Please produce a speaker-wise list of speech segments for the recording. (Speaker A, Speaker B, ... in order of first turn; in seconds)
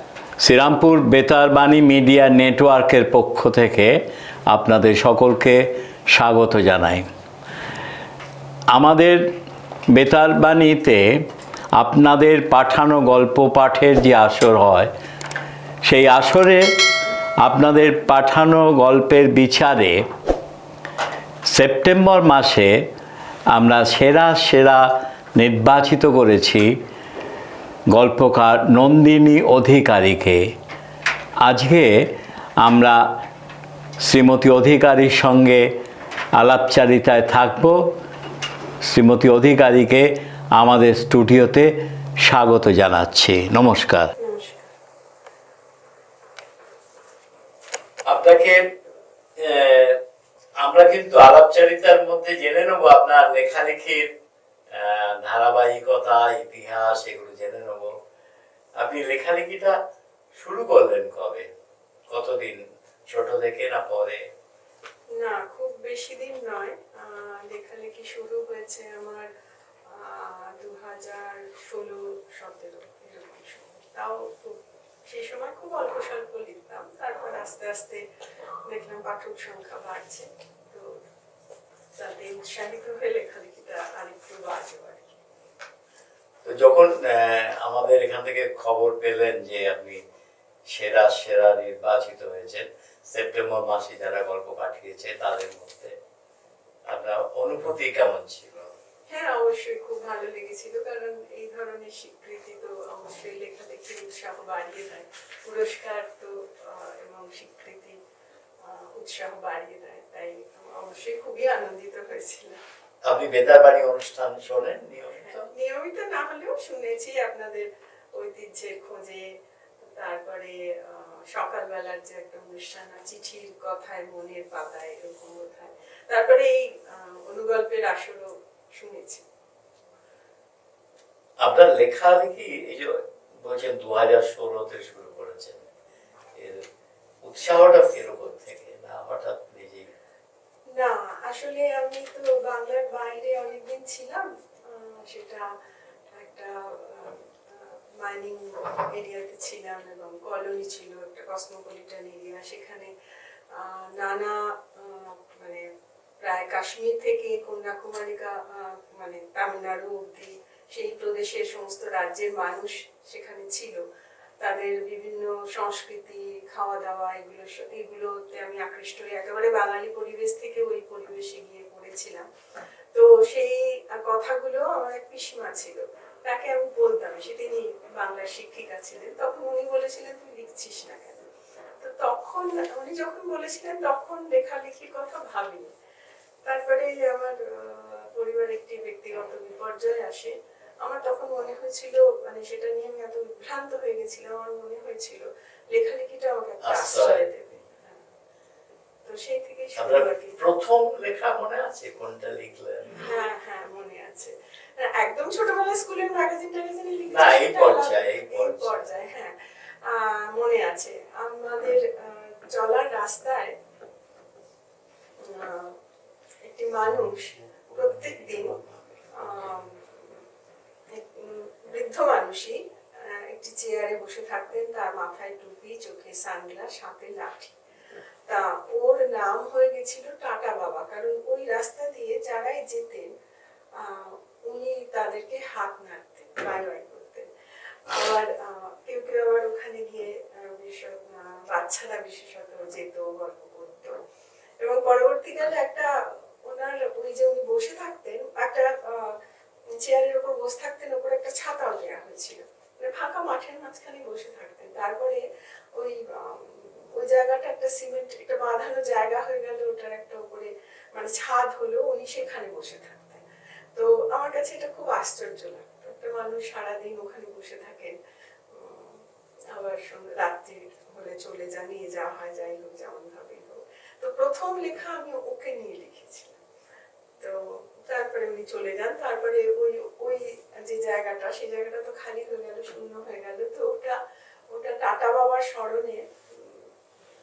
Speaker A: 0.4-4.0, 4.5-7.1, 8.7-9.3, 9.9-11.2, 11.8-14.9, 15.8-16.6, 17.4-20.1, 21.5-22.8, 23.5-26.7, 27.9-30.5, 31.4-32.0, 32.6-33.0, 34.0-35.7, 36.4-37.8, 38.8-44.1, 48.1-48.6, 49.4-50.0, 50.6-54.1, 54.7-57.9, 58.8-59.8, 60.4-61.5, 62.1-64.2, 86.4-90.0, 90.7-96.0, 96.9-98.7, 113.0-115.5, 131.4-135.7, 136.4-136.6, 137.2-139.9, 196.6-197.2, 199.8-203.1, 207.1-208.9, 217.0-219.7
Speaker B: 44.2-44.7, 65.2-69.3, 69.9-78.0, 78.7-80.9, 82.0-85.2, 99.1-108.0, 108.6-112.6, 115.2-119.2, 119.9-129.2, 140.8-145.4, 146.2-152.9, 153.6-155.7, 156.2-163.8, 164.4-172.3, 172.9-181.3, 181.8-185.7, 186.4-198.0, 199.1-200.4, 203.0-209.3, 209.9-213.5, 215.2-215.8, 216.4-218.6, 219.2-220.1, 220.9-227.6, 228.3-233.1, 233.8-237.3, 237.9-243.9, 244.6-245.9, 246.5-249.2, 249.8-255.2, 255.8-263.2, 263.8-268.0, 268.5-269.0, 269.5-276.4, 277.2-284.0, 284.5-286.7